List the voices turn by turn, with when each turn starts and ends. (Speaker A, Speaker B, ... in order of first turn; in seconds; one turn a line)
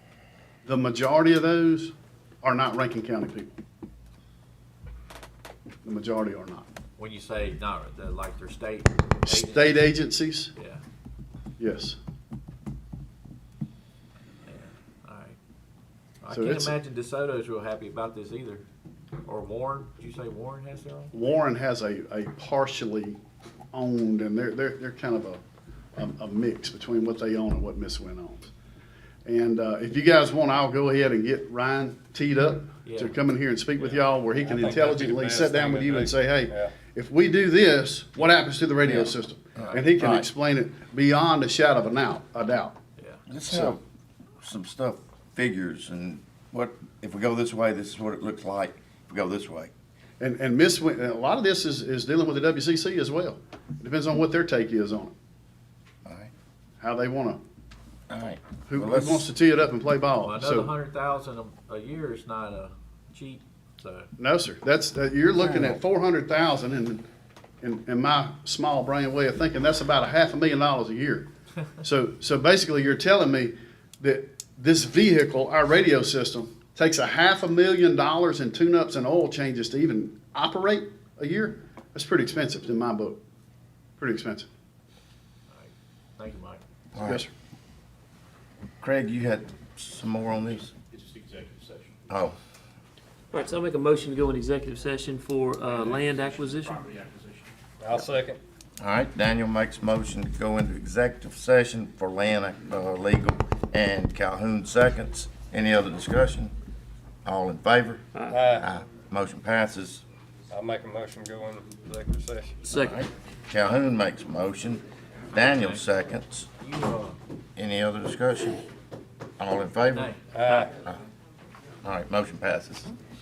Speaker A: 0.7-3.5
Speaker A: 5.8-6.7
Speaker B: 7.0-10.0
Speaker A: 9.3-10.5
Speaker B: 10.6-10.8
Speaker A: 11.6-12.0
Speaker B: 14.5-15.4
Speaker B: 16.2-18.6
Speaker A: 16.3-16.8
Speaker B: 19.2-21.1
Speaker A: 21.1-23.2
Speaker A: 23.7-25.4
Speaker A: 26.0-28.5
Speaker A: 29.2-42.8
Speaker B: 32.9-33.2
Speaker C: 34.4-36.7
Speaker D: 38.9-40.3
Speaker B: 39.6-40.0
Speaker B: 43.0-43.2
Speaker D: 43.3-43.8
Speaker A: 43.5-43.8
Speaker D: 44.4-49.7
Speaker A: 50.2-55.1
Speaker D: 56.0-56.3
Speaker A: 56.8-57.4
Speaker D: 58.1-59.3
Speaker A: 58.7-60.7
Speaker B: 60.2-64.1
Speaker A: 64.2-67.0
Speaker D: 65.4-65.8
Speaker A: 67.6-71.3
Speaker A: 71.8-83.2
Speaker A: 84.0-84.5
Speaker B: 85.5-86.6
Speaker D: 86.9-87.2
Speaker A: 87.0-87.3
Speaker D: 88.8-90.7
Speaker E: 90.9-92.0
Speaker D: 92.1-92.4
Speaker F: 93.3-96.8
Speaker E: 95.6-97.5
Speaker C: 97.8-98.4
Speaker D: 98.8-106.5
Speaker D: 107.2-108.0
Speaker C: 108.3-108.7
Speaker D: 108.6-110.0
Speaker C: 110.5-112.6
Speaker F: 112.6-113.0
Speaker D: 112.7-116.5
Speaker B: 115.4-115.8
Speaker B: 116.6-117.2
Speaker D: 117.6-118.6
Speaker D: 119.4-120.1
Speaker B: 119.9-120.7
Speaker C: 120.3-120.7
Speaker D: 121.8-122.9